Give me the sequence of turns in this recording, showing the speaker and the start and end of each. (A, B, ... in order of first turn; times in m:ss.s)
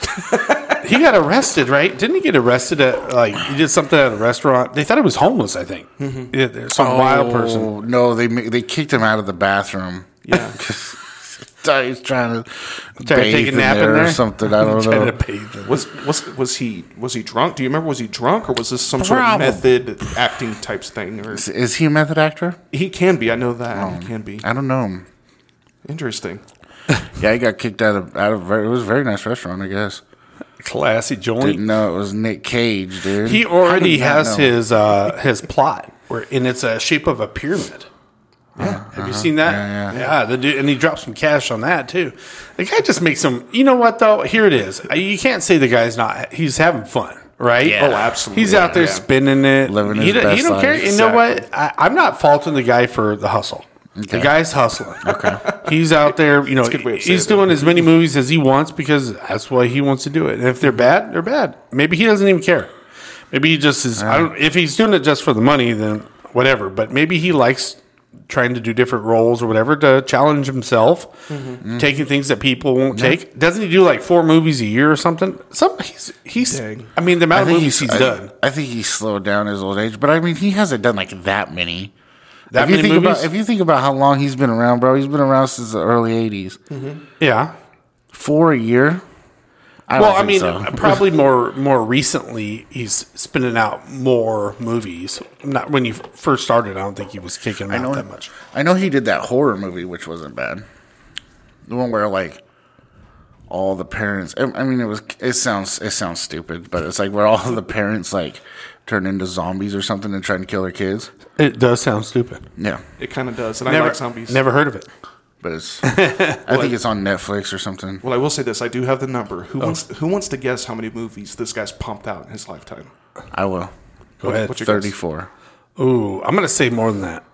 0:00.2-0:00.8 A
0:00.8-0:07.7 B
0:06.0-0:06.3 A
0:06.8-0:15.2 C
0:10.2-0:10.6 A
0:13.0-0:15.8 B
0:15.6-0:21.5 A
0:19.0-0:19.7 C
0:21.3-0:22.6 C
0:22.7-0:24.5 A
0:23.7-0:25.0 C
0:25.8-0:26.4 A
0:27.1-0:30.0 C
0:30.6-0:31.6 B
0:31.4-0:34.6 C
0:33.2-0:37.9 B
0:38.6-0:38.8 A
0:38.6-0:40.0 C
0:38.9-1:02.7 B
0:47.6-0:48.8 C
0:47.8-0:49.1 A
0:49.6-0:51.2 C
0:54.0-0:54.3 C
0:55.0-0:55.4 C
0:55.2-0:55.8 A
0:56.5-0:57.9 A
1:03.3-1:18.3 B
1:04.0-1:04.3 C
1:11.3-1:11.6 A
1:11.6-1:11.9 C
1:12.9-1:13.2 C
1:16.5-1:16.9 A
1:17.3-1:21.9 C
1:22.5-1:23.3 B
1:22.5-1:26.6 C
1:26.7-1:27.0 A
1:27.2-1:27.5 B
1:28.1-1:29.0 C
1:29.9-1:31.0 C
1:30.0-1:38.3 B
1:37.7-1:40.6 C
1:41.7-1:42.4 C
1:43.5-1:51.1 C
1:51.4-1:52.5 B
1:52.6-1:52.8 C
1:53.0-1:54.4 A
1:53.7-1:54.9 B
1:55.4-1:58.0 C
1:55.8-1:56.4 B
1:56.5-1:56.8 A
1:58.0-2:02.9 A
2:03.3-2:03.7 C
2:04.2-2:04.6 B
2:04.2-2:04.9 A
2:04.5-2:05.3 C
2:05.8-2:07.2 B